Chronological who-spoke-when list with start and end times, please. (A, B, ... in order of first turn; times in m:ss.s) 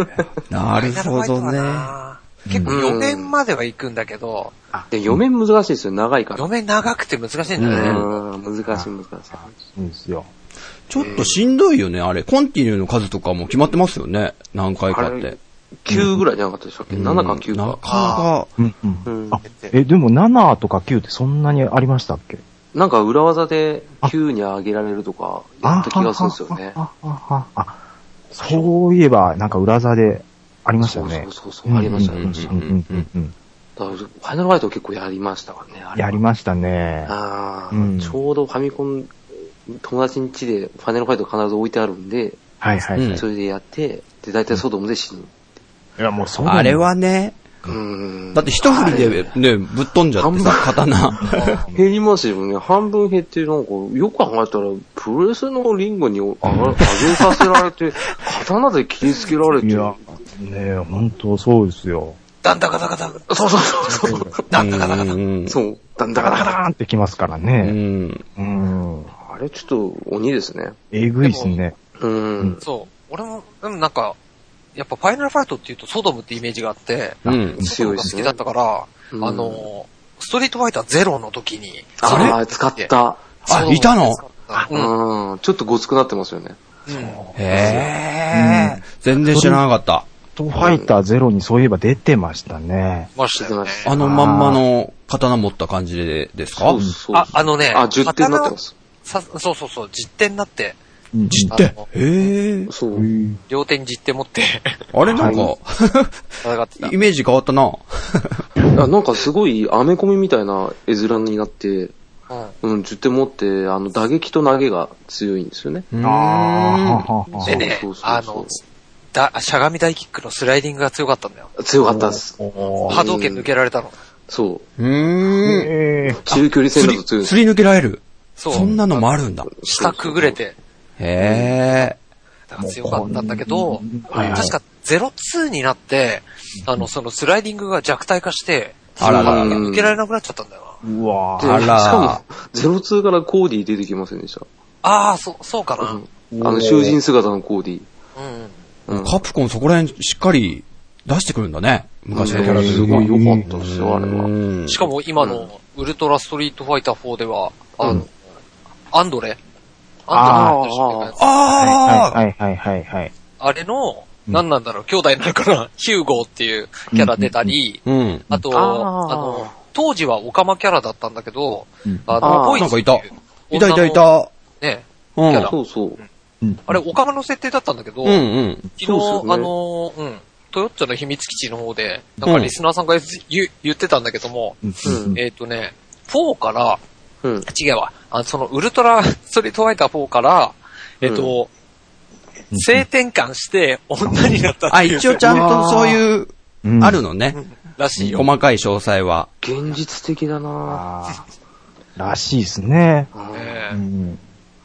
0:00.5-0:01.9 A
0:00.8-0:04.5 B
0:02.5-0:02.8 C
0:02.7-0:03.3 D
0:04.7-0:05.2 C
0:04.9-0:06.5 D
0:06.4-0:08.1 B
0:07.6-0:08.1 A
0:07.6-0:09.5 D
0:08.7-0:10.3 C
0:10.9-0:15.4 A
0:11.0-0:11.4 D
0:14.9-0:18.2 D
0:15.9-0:16.2 C
0:16.9-0:18.5 A
0:17.9-0:18.2 B
0:18.6-0:22.4 C
0:19.1-0:19.4 D
0:19.4-0:19.7 B
0:22.7-0:26.8 D
0:25.6-0:27.8 C
0:28.3-0:33.3 C
0:30.8-0:32.6 D
0:32.1-0:33.1 A
0:33.8-0:36.2 D
0:36.0-0:37.2 C
0:37.1-0:42.4 D
0:37.7-0:38.2 C
0:42.6-0:43.2 C
0:43.0-0:43.2 A
0:43.1-0:45.3 D
0:46.0-0:46.9 C
0:46.4-0:47.6 A
0:47.7-0:49.4 D
0:48.3-0:51.6 A
0:50.2-0:50.8 D
0:51.1-0:51.8 C
0:51.7-1:00.0 D
0:59.6-1:02.2 C
1:02.4-1:05.2 B
1:03.3-1:04.4 D
1:03.9-1:04.4 C
1:04.5-1:05.6 A
1:05.5-1:06.6 D
1:06.2-1:07.8 C
1:07.6-1:08.2 A
1:08.4-1:09.1 C
1:09.2-1:10.8 D
1:10.9-1:11.8 C
1:11.2-1:11.6 B
1:12.0-1:12.6 D
1:12.6-1:14.2 B
1:14.8-1:22.9 B
1:17.2-1:17.7 C
1:17.3-1:17.6 A
1:17.6-1:18.4 D
1:19.1-1:19.7 D
1:22.0-1:23.2 D
1:22.0-1:22.4 A
1:23.4-1:24.9 B
1:23.5-1:24.2 A
1:24.7-1:26.6 D
1:26.9-1:27.2 B
1:27.3-1:29.6 C
1:27.4-1:30.1 A
1:27.5-1:27.9 D
1:30.4-1:33.1 C
1:30.6-1:30.9 D
1:33.2-1:33.9 B
1:33.4-1:34.0 D
1:33.9-1:36.8 A
1:34.0-1:34.6 C
1:36.6-1:38.7 D
1:37.1-1:38.6 B
1:39.1-1:40.8 B
1:41.1-1:41.5 C
1:41.3-1:42.7 A
1:41.5-1:41.9 B
1:42.7-1:43.1 D
1:42.9-1:43.4 C
1:43.5-1:44.8 B
1:44.9-1:46.2 A
1:45.1-1:45.5 C
1:45.2-1:45.5 D
1:46.4-1:47.0 B
1:46.8-1:48.4 A
1:48.7-1:51.9 D
1:52.3-1:52.6 B
1:52.6-1:55.9 D
1:55.9-1:57.1 A
1:56.0-1:57.7 C
1:57.4-1:58.6 D
1:57.4-1:58.6 B
1:59.1-2:01.6 B
2:01.6-2:03.5 D
2:01.8-2:03.1 C
2:02.9-2:03.9 B
2:04.3-2:04.6 D
2:04.8-2:05.7 A
2:05.4-2:06.2 C
2:06.1-2:07.4 D
2:06.3-2:09.5 A
2:08.4-2:10.6 B
2:08.5-2:08.8 C
2:09.5-2:10.4 D
2:11.0-2:12.0 A
2:11.2-2:11.6 D
2:12.5-2:20.8 B
2:12.6-2:14.6 C
2:16.6-2:16.9 C
2:19.0-2:19.6 A
2:19.0-2:20.0 D
2:20.8-2:21.7 C
2:21.4-2:24.5 D
2:21.4-2:22.2 A
2:24.8-2:26.0 B
2:25.8-2:27.9 D
2:26.3-2:27.0 C
2:28.2-2:28.5 B
2:28.9-2:29.2 D
2:28.9-2:34.8 A
2:32.1-2:34.3 D
2:32.3-2:33.5 C
2:34.7-2:38.1 B
2:35.2-2:35.5 D
2:38.9-2:39.4 B
2:40.1-2:41.3 B
2:40.1-2:40.6 C
2:40.2-2:41.2 D
2:41.2-2:42.2 A
2:41.6-2:43.1 C
2:43.4-2:54.0 B
2:46.9-2:47.6 C
2:47.8-2:48.3 A
2:48.5-2:49.5 D
2:51.9-2:52.2 C
2:52.2-2:52.7 D
2:52.3-2:54.3 A
2:54.6-2:56.0 B
2:55.2-2:55.5 A
2:55.4-2:56.0 D
2:56.4-2:56.8 C
2:56.7-2:58.2 B
2:58.0-2:58.6 A
2:58.8-3:06.8 B
2:58.8-2:59.5 D
3:02.2-3:02.5 A
3:04.6-3:05.2 C
3:04.8-3:05.2 D
3:07.5-3:11.5 B
3:11.0-3:11.3 D
3:12.5-3:12.9 C
3:12.5-3:15.4 B
3:14.7-3:17.4 A
3:15.2-3:16.0 D
3:16.6-3:17.0 C
3:17.3-3:18.3 B
3:18.0-3:18.3 C
3:18.1-3:19.3 A
3:19.4-3:20.8 D
3:20.7-3:21.2 C
3:22.0-3:23.1 C
3:23.1-3:23.6 D
3:23.3-3:23.8 B
3:23.7-3:24.2 C